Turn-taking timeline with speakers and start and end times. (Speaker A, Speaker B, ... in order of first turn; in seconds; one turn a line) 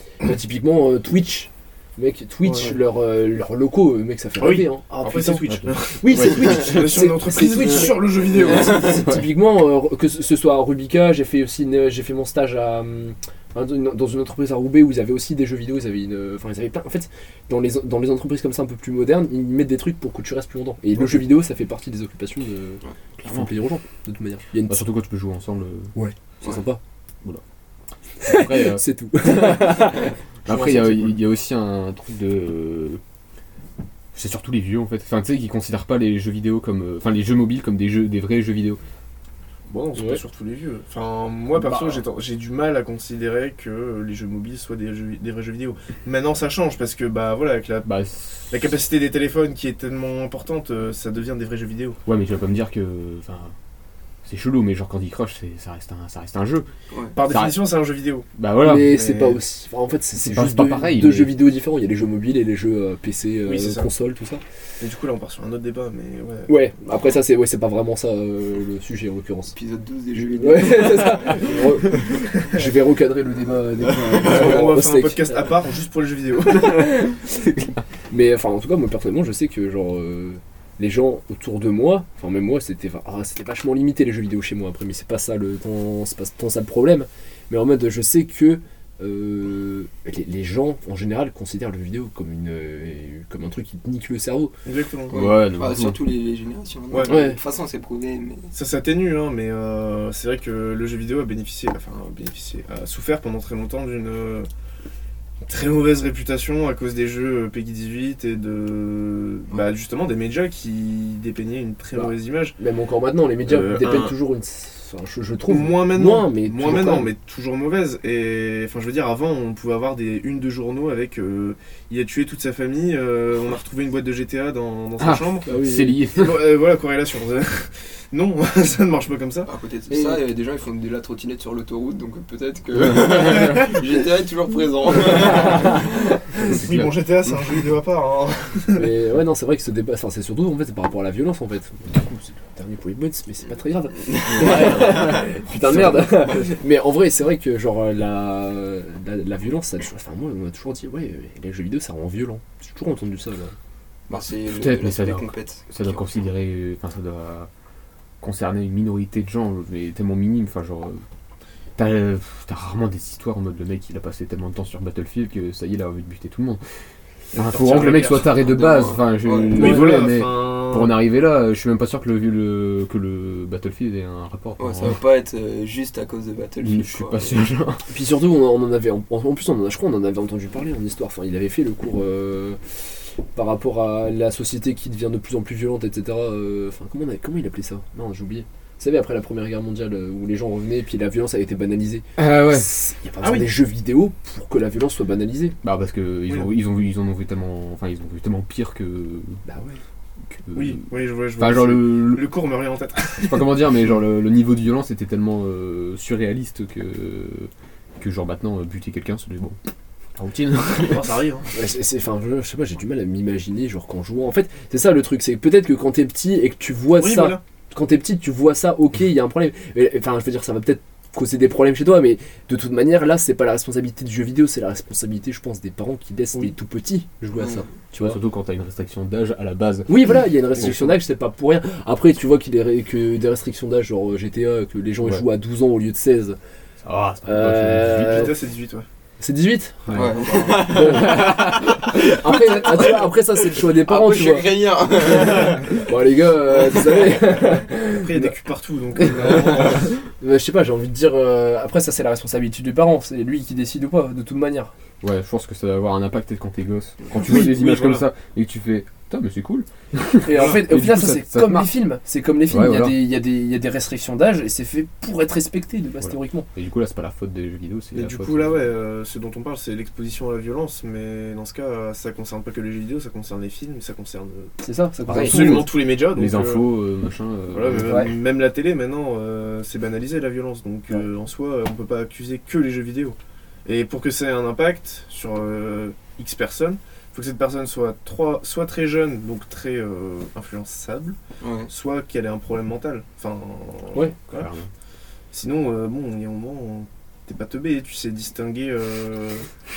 Speaker A: 0.2-5.4
Speaker B: 2.5-2.7
Speaker B: 4.4-9.1
Speaker C: 5.5-6.7
Speaker A: 6.0-24.9
Speaker C: 23.2-23.5
Speaker C: 24.7-25.9
Speaker A: 25.9-26.8
Speaker A: 28.2-31.2
Speaker C: 28.2-33.0
Speaker C: 34.1-38.8
Speaker B: 39.7-48.0
Speaker C: 41.5-42.0
Speaker C: 47.9-48.7
Speaker B: 48.5-52.0
Speaker C: 52.1-53.5
Speaker C: 54.2-56.7
Speaker B: 57.1-58.3
Speaker C: 57.3-57.6
Speaker C: 58.4-59.0
Speaker A: 58.6-64.4
Speaker B: 58.8-59.4
Speaker C: 60.2-61.4
Speaker B: 63.5-63.9
Speaker B: 64.8-66.6
Speaker A: 66.5-69.5
Speaker D: 69.5-72.0
Speaker A: 70.2-75.5
Speaker D: 74.1-74.8
Speaker B: 74.2-76.9
Speaker A: 76.5-94.5
Speaker B: 94.7-95.2
Speaker D: 95.1-98.5
Speaker C: 95.1-96.2
Speaker B: 96.9-97.3
Speaker A: 97.0-97.4
Speaker B: 98.5-104.5
Speaker B: 105.5-112.6
Speaker A: 111.9-117.1
Speaker B: 113.4-114.2
Speaker B: 115.5-125.5
Speaker C: 125.0-126.5
Speaker A: 125.5-126.0
Speaker B: 126.1-129.5
Speaker D: 129.5-135.9
Speaker A: 129.9-130.2
Speaker C: 136.4-137.0
Speaker B: 136.4-138.9
Speaker A: 138.8-153.6
Speaker C: 144.3-146.0
Speaker D: 154.1-156.1
Speaker C: 154.1-157.5
Speaker C: 158.2-161.0
Speaker C: 161.8-166.6
Speaker B: 167.3-168.3
Speaker C: 167.3-175.0
Speaker D: 168.2-169.6
Speaker B: 169.5-171.0
Speaker A: 169.6-169.9
Speaker D: 174.6-177.3
Speaker C: 176.6-177.8
Speaker A: 177.9-182.6
Speaker A: 183.3-195.5
Speaker C: 192.2-192.7
Speaker B: 193.2-193.5
Speaker C: 195.6-199.4
Speaker A: 199.4-199.8
Speaker C: 200.3-202.2
Speaker B: 200.5-203.5
Speaker C: 203.2-209.6
Speaker C: 210.2-211.1
Speaker B: 210.8-211.5
Speaker A: 211.5-228.2
Speaker B: 216.9-217.4
Speaker D: 227.3-227.7
Speaker C: 227.9-230.9
Speaker A: 229.9-236.4
Speaker C: 236.8-238.3
Speaker A: 237.3-238.3
Speaker B: 237.9-238.9
Speaker A: 239.2-244.5
Speaker D: 239.9-245.8
Speaker A: 245.0-248.4
Speaker D: 246.7-247.0
Speaker B: 248.0-250.0
Speaker A: 248.9-254.7
Speaker C: 255.0-261.8
Speaker B: 257.1-258.1
Speaker A: 260.2-266.5
Speaker B: 260.3-260.7
Speaker C: 262.5-263.0
Speaker C: 266.1-268.6
Speaker B: 267.9-274.5
Speaker A: 274.6-275.7
Speaker C: 275.1-278.1
Speaker B: 275.1-276.7
Speaker B: 277.5-291.2
Speaker A: 277.8-278.1
Speaker D: 291.4-291.7
Speaker B: 291.7-294.5
Speaker C: 294.3-294.7
Speaker B: 295.3-299.5